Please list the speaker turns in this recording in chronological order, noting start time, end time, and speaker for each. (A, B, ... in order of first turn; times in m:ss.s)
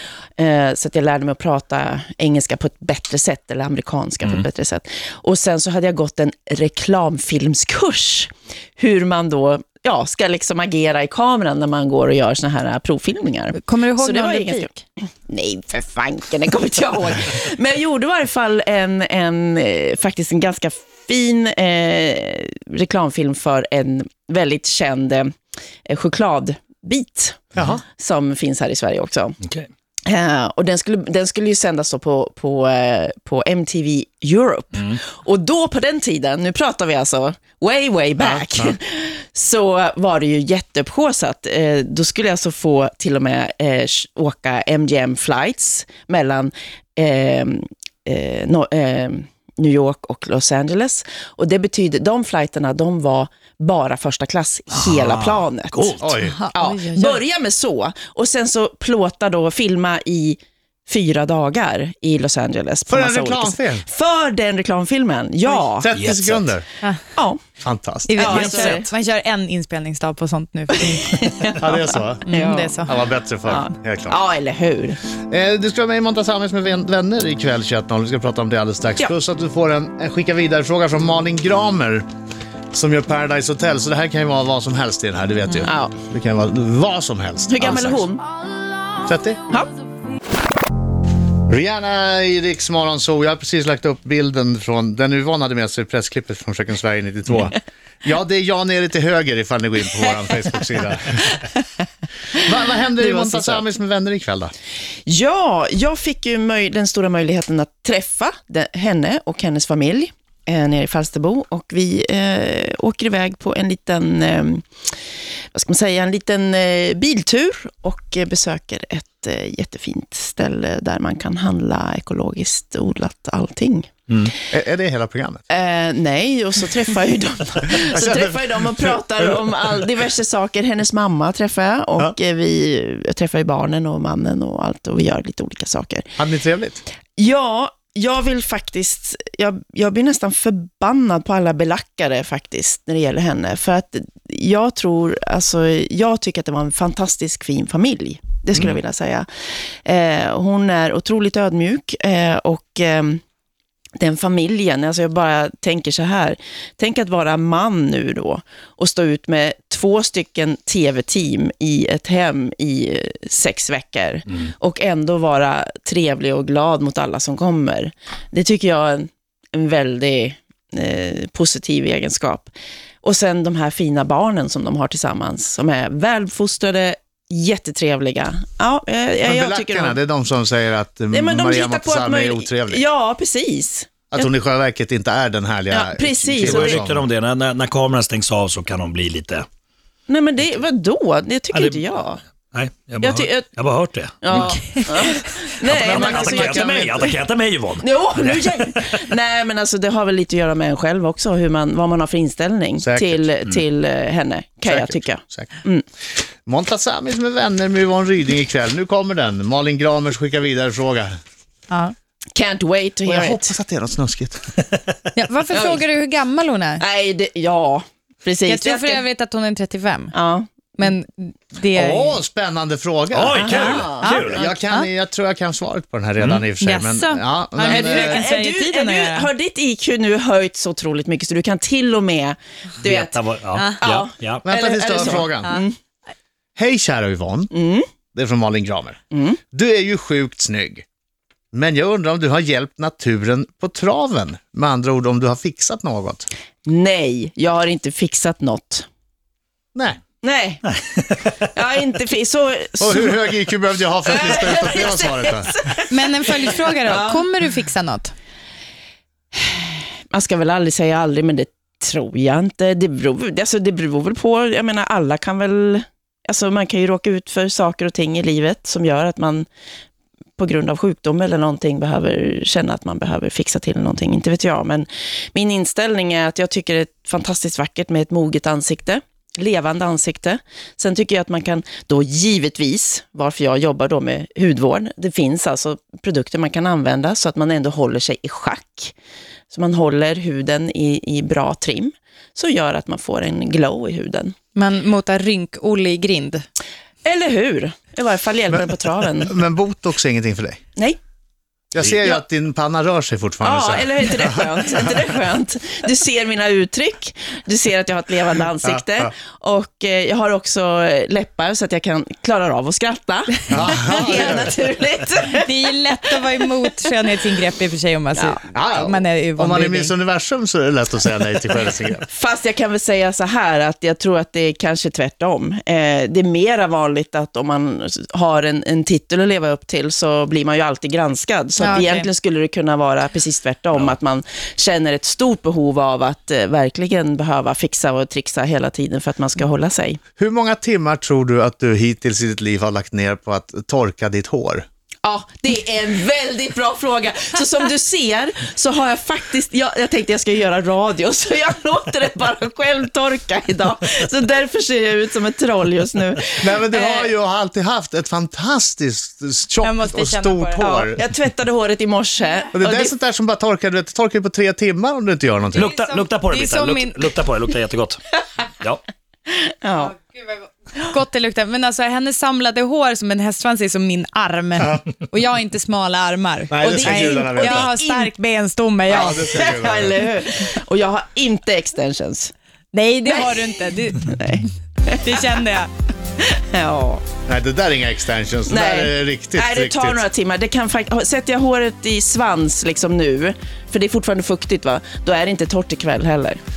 0:00.4-0:25.3 A
0:13.5-0:14.8 B
0:25.8-0:29.4 A
0:27.6-0:27.8 C
0:29.4-0:29.7 D
0:30.0-0:56.0 A
0:38.2-0:38.7 C
0:54.7-0:56.1 D
0:56.0-0:56.4 C
0:56.2-0:57.2 B
0:56.5-1:05.9 A
1:02.9-1:03.8 C
1:05.6-1:06.6 C
1:05.9-1:06.5 D
1:07.6-1:08.8 C
1:08.1-1:11.5 B
1:08.2-1:08.9 A
1:10.9-1:11.7 A
1:11.6-1:12.2 C
1:12.2-1:12.9 B
1:12.3-1:12.8 A
1:12.8-1:14.2 C
1:13.4-1:15.0 A
1:15.3-1:22.0 C
1:22.7-1:28.0 C
1:25.6-1:25.9 A
1:27.5-1:28.2 A
1:29.0-1:29.4 C
1:31.5-1:41.2 C
1:42.4-1:44.5 C
1:43.0-1:43.6 A
1:45.0-1:54.7 A
1:55.5-2:03.9 A
2:04.2-2:05.4 C
2:05.5-2:16.1 A
2:07.9-2:09.4 C
2:16.2-2:16.8 C
2:17.2-2:29.3 A
2:29.8-2:33.2 A
2:34.0-2:52.5 A
2:53.0-3:00.0 A
2:59.2-3:02.8 C
3:01.1-3:03.9 A
3:04.1-3:07.0 C
3:05.7-3:06.8 A
3:06.4-3:09.4 D
3:10.1-3:12.2 A
3:11.5-3:15.1 D
3:13.0-3:13.5 A
3:14.2-3:17.1 A
3:15.6-3:17.1 C
3:15.6-3:19.0 D
3:17.8-3:25.8 A
3:22.8-3:23.2 C
3:24.6-3:25.5 C
3:26.4-3:31.2 C
3:32.3-3:33.5 A
3:33.0-3:34.4 C
3:35.1-3:36.8 B
3:35.5-3:35.8 A
3:36.8-3:39.0 A
3:38.4-3:40.1 B
3:40.1-3:40.5 A
3:40.8-3:42.2 B
3:41.7-3:48.2 C
3:43.1-3:44.5 D
3:43.3-3:44.0 A
3:43.5-3:44.9 B
3:46.2-3:46.4 D
3:46.6-3:49.3 B
3:47.7-3:55.7 A
3:52.8-3:54.4 D
3:54.4-3:55.5 C
3:56.6-3:57.5 C
3:57.5-3:57.8 A
3:58.1-3:59.0 C
3:59.1-3:59.4 A
3:59.5-4:00.8 C
4:01.5-4:06.3 C
4:06.6-4:08.9 A
4:10.2-4:10.6 A
4:11.5-4:13.3 A
4:12.8-4:15.5 C
4:14.0-4:17.3 A
4:15.9-4:18.1 B
4:19.4-4:29.5 A
4:30.4-4:48.9 A
4:49.5-4:54.3 A
4:54.5-4:56.4 B
4:57.0-4:59.4 A
4:59.2-5:00.6 C
5:01.7-5:04.7 C
5:03.4-5:15.5 A
5:13.5-5:14.5 C
5:14.1-5:14.4 B
5:15.3-5:19.9 B
5:18.5-5:22.0 C
5:22.1-5:40.0 A
5:31.6-5:32.1 B
5:40.2-5:44.6 C
5:45.0-5:57.1 A
5:56.4-6:01.0 C
5:59.6-6:00.7 B
6:00.6-6:02.9 A
6:02.5-6:05.7 C
6:05.5-6:08.0 D
6:05.6-6:07.1 B
6:09.3-6:09.9 A
6:09.8-6:19.2 B
6:14.6-6:14.8 C
6:16.5-6:17.7 C
6:16.6-6:18.1 A
6:18.9-6:20.0 C
6:18.9-6:22.3 A
6:22.7-6:24.1 B
6:23.1-6:25.2 A
6:25.0-6:25.7 B
6:26.2-6:27.0 A
6:27.3-6:30.0 C
6:28.5-6:36.4 A